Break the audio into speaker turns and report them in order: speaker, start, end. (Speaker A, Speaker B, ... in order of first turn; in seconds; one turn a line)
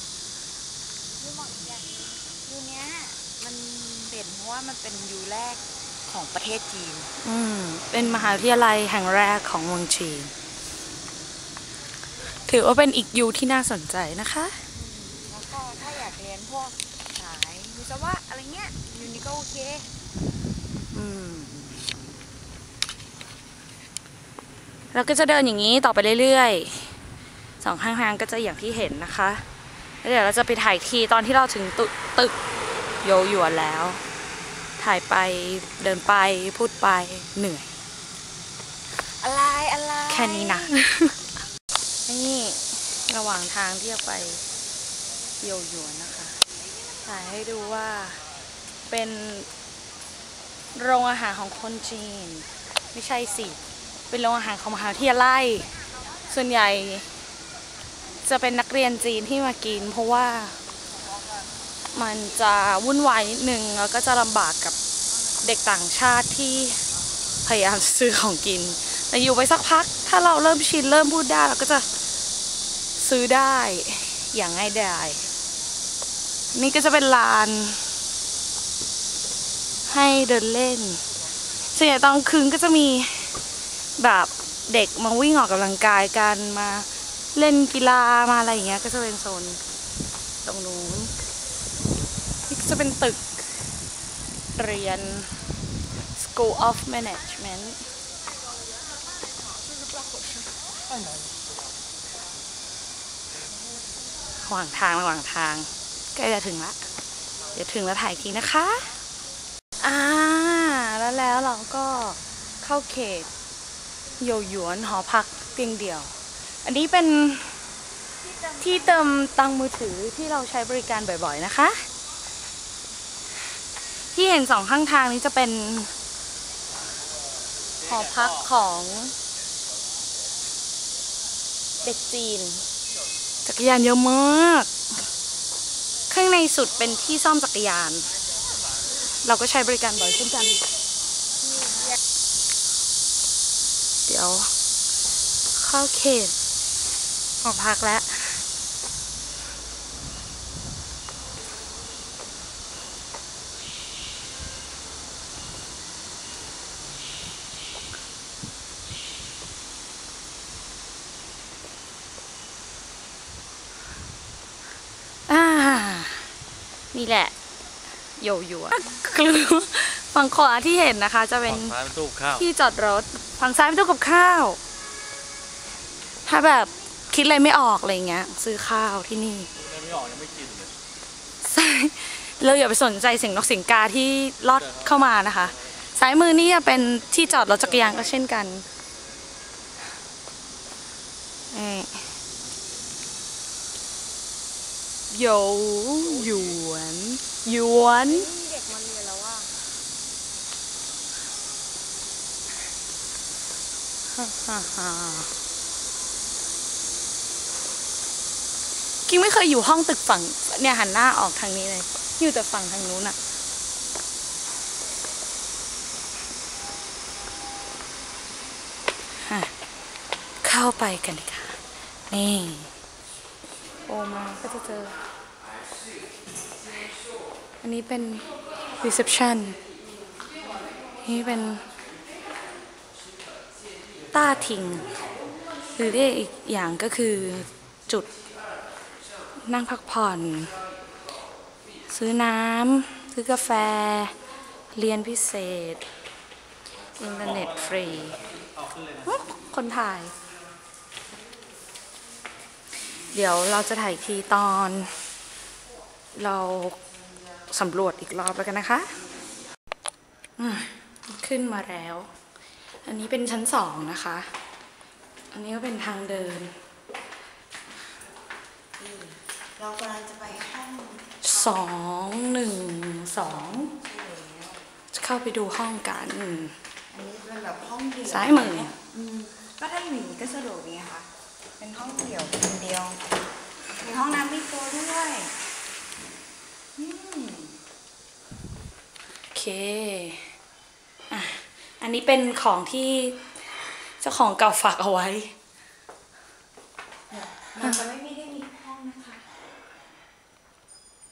Speaker A: 1.2-7.1
Speaker B: 7.2-10.3
Speaker B: 12.4-14.6
Speaker A: 14.8-19.9
Speaker B: 20.9-21.8
Speaker B: 24.9-27.0
Speaker B: 27.6-29.4
Speaker B: 30.0-32.4
Speaker B: 33.0-34.0
Speaker B: 34.8-37.8
Speaker A: 39.0-40.9
Speaker B: 40.1-41.2
Speaker B: 42.1-44.4
Speaker B: 45.4-46.4
Speaker B: 47.0-48.2
Speaker B: 48.9-49.5
Speaker B: 50.8-55.8
Speaker B: 56.3-57.1
Speaker B: 58.2-60.6
Speaker B: 61.9-64.8
Speaker B: 65.4-66.8
Speaker B: 67.5-71.9
Speaker B: 73.0-75.3
Speaker B: 76.5-77.9
Speaker B: 79.9-81.0
Speaker B: 81.7-83.4
Speaker B: 84.0-89.6
Speaker B: 90.4-91.1
Speaker B: 92.5-93.6
Speaker B: 94.6-95.4
Speaker B: 96.2-97.8
Speaker B: 104.4-106.8
Speaker B: 107.5-109.0
Speaker B: 109.8-113.3
Speaker B: 114.2-117.6
Speaker B: 118.6-121.9
Speaker B: 124.1-125.9
Speaker B: 127.8-129.2
Speaker B: 131.8-132.6
Speaker B: 133.5-134.7
Speaker B: 136.1-138.1
Speaker B: 139.2-140.7
Speaker B: 144.1-144.5
Speaker B: 145.5-146.3
Speaker B: 147.4-148.4
Speaker B: 165.3-166.3
Speaker B: 166.9-167.3
Speaker B: 168.2-174.6
Speaker C: 171.5-172.4
Speaker B: 176.2-179.5
Speaker C: 179.8-180.5
Speaker B: 181.4-188.7
Speaker C: 187.5-187.9
Speaker B: 191.5-192.1
Speaker B: 195.1-198.3
Speaker A: 198.1-199.6
Speaker B: 204.1-205.3
Speaker B: 209.1-213.2
Speaker B: 219.2-219.5
Speaker B: 220.4-221.6
Speaker B: 222.1-222.7
Speaker B: 223.9-225.0
Speaker B: 227.6-228.3
Speaker B: 228.8-229.6
Speaker B: 231.0-231.7
Speaker B: 234.1-234.9
Speaker B: 235.8-238.1
Speaker B: 239.4-240.5
Speaker B: 241.9-244.2
Speaker B: 244.7-245.9
Speaker B: 247.0-248.2
Speaker B: 249.0-250.1
Speaker B: 253.1-254.9
Speaker B: 256.1-256.8
Speaker B: 257.5-259.0
Speaker B: 260.4-262.1
Speaker B: 262.8-264.3
Speaker B: 265.3-266.6
Speaker A: 268.8-271.6
Speaker B: 271.2-273.7
Speaker A: 273.6-274.6
Speaker B: 274.9-276.6
Speaker A: 276.9-281.1
Speaker B: 278.1-278.7
Speaker A: 281.6-283.1
Speaker A: 283.8-285.4
Speaker A: 286.8-287.6
Speaker B: 289.3-290.3
Speaker B: 291.1-293.2
Speaker B: 294.0-295.3
Speaker A: 297.1-299.2
Speaker B: 297.6-297.9